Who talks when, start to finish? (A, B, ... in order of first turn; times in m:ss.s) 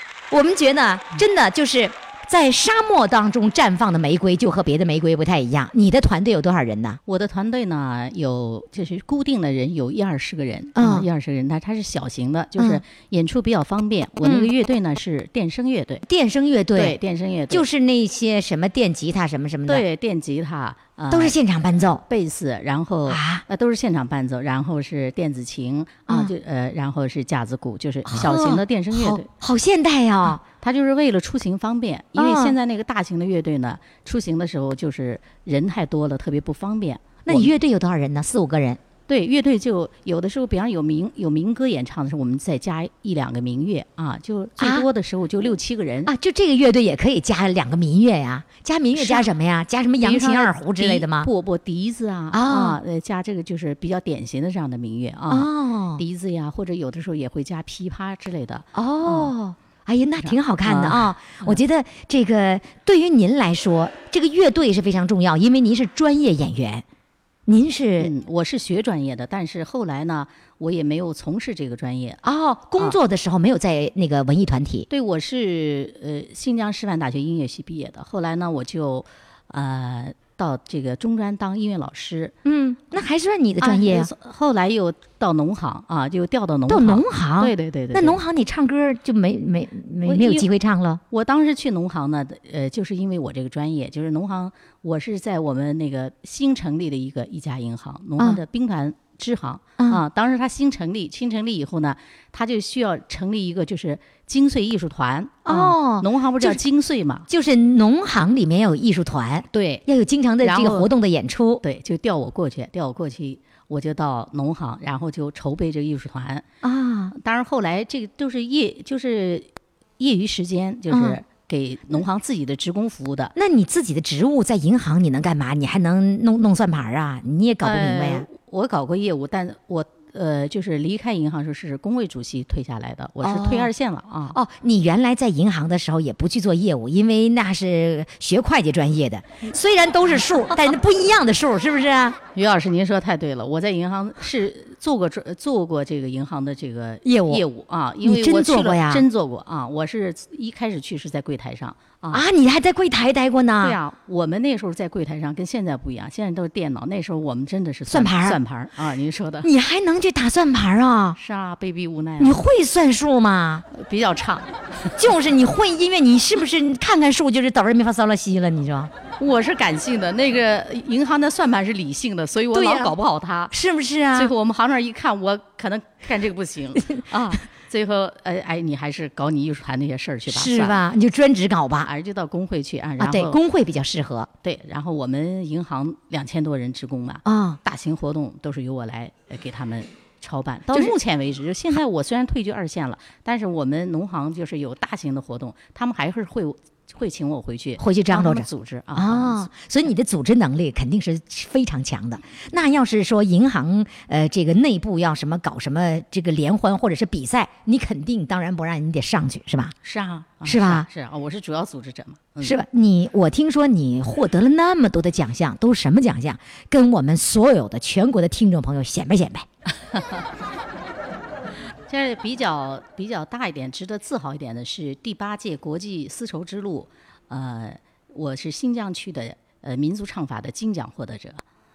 0:00.3-0:07.0 A
0:07.0-0:16.0 B
0:10.7-0:11.1 A
0:14.2-0:14.5 A
0:16.0-0:17.0 A
0:16.7-0:17.6 B
0:17.5-0:19.8 A
0:19.7-0:21.4 B
0:21.1-0:22.0 A
0:22.1-0:29.3 B
0:23.0-0:23.4 A
0:26.1-0:26.3 A
0:28.0-0:30.4 A
0:30.4-0:37.5 B
0:32.2-0:32.6 A
0:37.2-0:38.8 A
0:39.1-0:46.1 B
0:44.6-0:44.9 A
0:46.0-0:51.3 A
0:48.9-0:49.3 B
0:50.0-0:59.3 B
0:52.3-0:52.8 A
0:55.3-0:56.0 A
0:58.7-1:06.8 A
1:00.2-1:01.6 B
1:07.5-1:08.1 A
1:08.0-1:12.2 B
1:12.2-1:14.9 A
1:14.9-1:22.3 B
1:22.4-1:24.1 A
1:23.6-1:28.2 B
1:26.7-1:31.0 A
1:30.0-1:30.5 B
1:31.1-1:47.3 B
1:39.8-1:40.0 A
1:45.4-1:46.6 A
1:47.3-1:51.6 A
1:49.5-1:49.8 B
1:50.4-1:50.9 B
1:51.6-1:56.4 B
1:56.6-1:57.1 A
1:57.1-2:03.3 B
2:00.9-2:01.2 A
2:03.3-2:08.3 A
2:07.6-2:14.4 B
2:13.2-2:13.7 A
2:14.3-2:22.2 A
2:22.3-2:32.2 B
2:27.0-2:27.4 A
2:28.0-2:29.0 A
2:32.1-2:33.8 A
2:33.6-2:39.5 B
2:37.9-2:38.4 A
2:39.4-2:41.2 A
2:41.2-2:42.4 B
2:42.2-2:43.6 A
2:43.7-2:44.4 B
2:45.0-2:48.9 A
2:49.2-2:53.5 B
2:52.5-2:52.9 A
2:53.5-2:54.3 A
2:54.1-3:00.8 B
2:56.8-2:57.4 A
3:00.3-3:01.9 A
3:01.8-3:03.4 B
3:03.0-3:04.3 A
3:04.4-3:19.5 B
3:07.2-3:07.6 A
3:17.8-3:29.7 A
3:29.8-3:32.6 B
3:30.4-3:30.9 A
3:32.4-3:39.4 A
3:39.9-3:40.2 B
3:41.9-3:51.4 B